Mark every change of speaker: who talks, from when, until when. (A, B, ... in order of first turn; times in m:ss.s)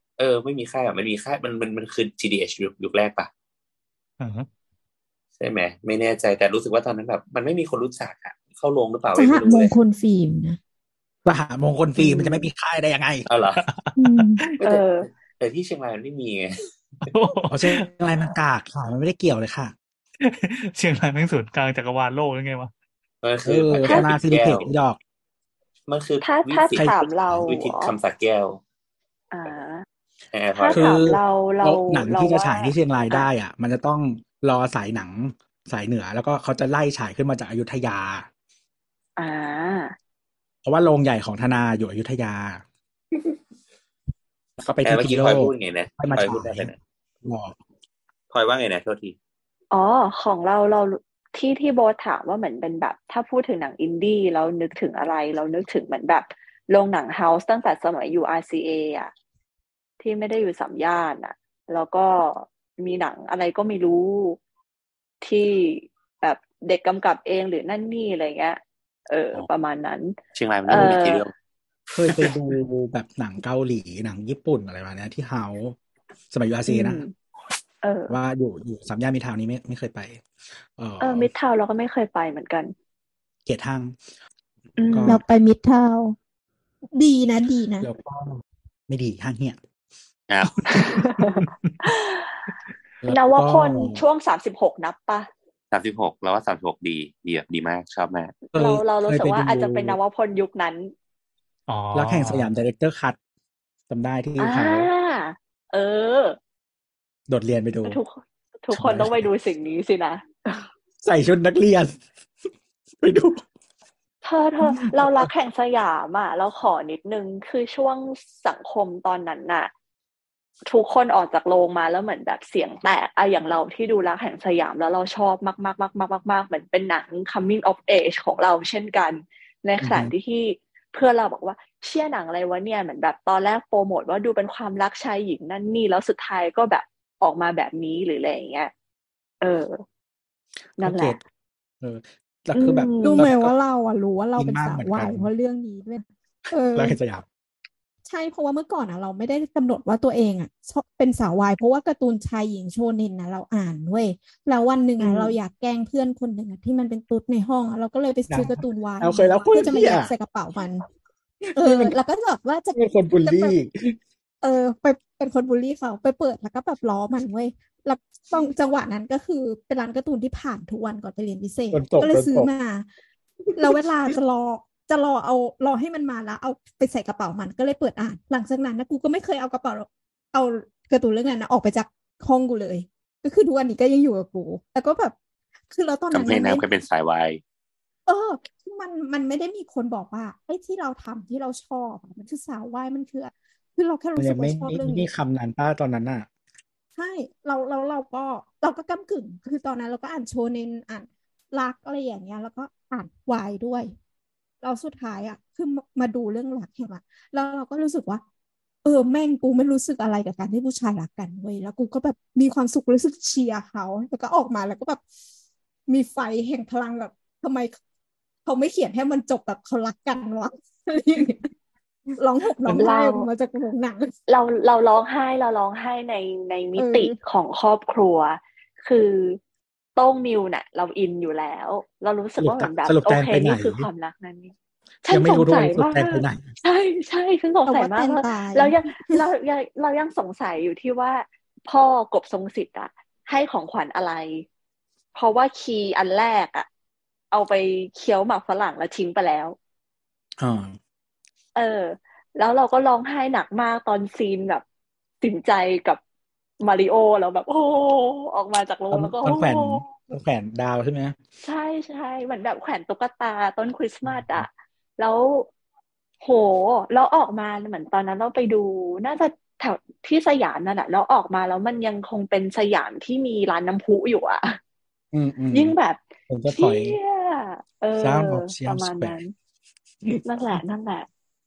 0:00.2-0:03.3 A
0:04.2-0:04.5 B
0:05.4-0:09.7 A
0:09.2-0:10.6 C
0:11.2-0:13.3 D
0:12.0-0:12.4 E
0:13.2-0:13.6 A
0:13.6-0:14.4 B
0:14.0-0:14.4 C
0:14.6-0:15.1 E
0:15.4-0:16.6 A
0:17.0-0:17.9 B
0:17.5-0:19.7 D
0:20.2-0:22.7 B
0:23.2-0:24.7 A
0:23.4-0:25.0 D
0:23.8-0:24.1 E
0:25.9-0:28.6 A
0:26.2-0:27.9 E
0:26.7-0:27.5 D
0:29.3-0:29.8 E
0:30.3-0:31.0 A
0:30.6-0:33.3 E
0:30.7-0:38.3 D
0:39.2-0:39.9 E
0:40.6-0:42.6 D
0:44.6-0:47.6 D
0:44.8-0:46.8 A
0:48.3-0:49.2 A
0:49.7-0:59.1 E
1:00.0-1:04.4 E
1:05.2-1:11.2 E
1:10.3-1:11.3 A
1:11.9-1:15.8 D
1:12.1-1:12.3 A
1:16.3-1:17.0 D
1:16.7-1:17.1 E
1:17.8-1:18.2 E
1:18.1-1:20.2 D
1:20.8-1:21.3 D
1:21.0-1:22.7 E
1:23.4-1:24.0 D
1:24.8-1:25.2 E
1:24.8-1:25.2 D
1:25.0-1:26.2 C
1:26.9-1:27.9 C
1:27.8-1:29.6 D
1:30.3-1:31.0 A
1:31.1-1:32.4 E
1:33.0-1:34.0 D
1:33.1-1:35.3 E
1:35.7-1:38.4 A
1:38.5-1:40.9 E
1:38.5-1:40.0 D
1:41.7-1:42.5 B
1:41.9-1:43.2 D
1:43.9-1:44.9 D
1:44.4-1:46.4 E
1:47.3-1:48.0 D
1:47.8-1:50.7 E
1:48.7-1:49.3 D
1:51.0-1:52.0 D
1:53.0-1:53.4 D
1:54.2-1:59.7 E
1:54.7-1:55.3 D
2:00.7-2:18.7 E
2:09.8-2:10.1 D
2:19.4-2:19.8 E
2:20.8-2:21.2 E
2:20.8-2:21.2 D
2:21.8-2:23.5 D
2:22.5-2:23.2 E
2:23.0-2:27.0 C
2:24.4-2:25.3 D
2:26.7-2:27.2 D
2:28.0-2:40.9 C
2:35.0-2:35.4 D
2:38.3-2:40.1 D
2:41.4-2:43.6 C
2:41.5-2:41.9 D
2:42.7-2:43.9 D
2:44.4-2:52.8 C
2:51.7-2:52.5 D
2:53.5-3:05.2 C
3:05.7-3:06.6 C
3:06.1-3:07.4 A
3:08.1-3:15.1 C
3:14.2-3:16.3 D
3:17.0-3:23.9 C
3:24.6-3:28.2 C
3:28.8-3:35.0 C
3:35.9-3:37.8 C
3:38.4-3:41.5 C
3:42.2-3:44.1 C
3:42.7-3:43.3 E
3:44.3-3:49.4 E
3:46.8-3:47.2 C
3:50.0-3:54.5 E
3:52.4-3:53.9 D
3:55.0-4:04.4 E
3:55.1-3:56.5 D
3:57.7-3:59.2 C
4:05.1-4:06.7 E
4:07.3-4:09.6 E
4:10.4-4:10.8 D
4:11.6-4:14.6 E
4:15.2-4:16.0 E
4:16.6-4:19.9 E
4:18.9-4:21.2 D
4:21.4-4:24.5 E
4:24.1-4:24.4 D
4:25.0-4:25.5 E
4:26.2-4:34.6 E
4:35.1-4:35.7 D
4:35.5-4:39.3 E
4:36.3-4:37.0 D
4:38.0-4:39.2 D
4:40.2-4:41.1 E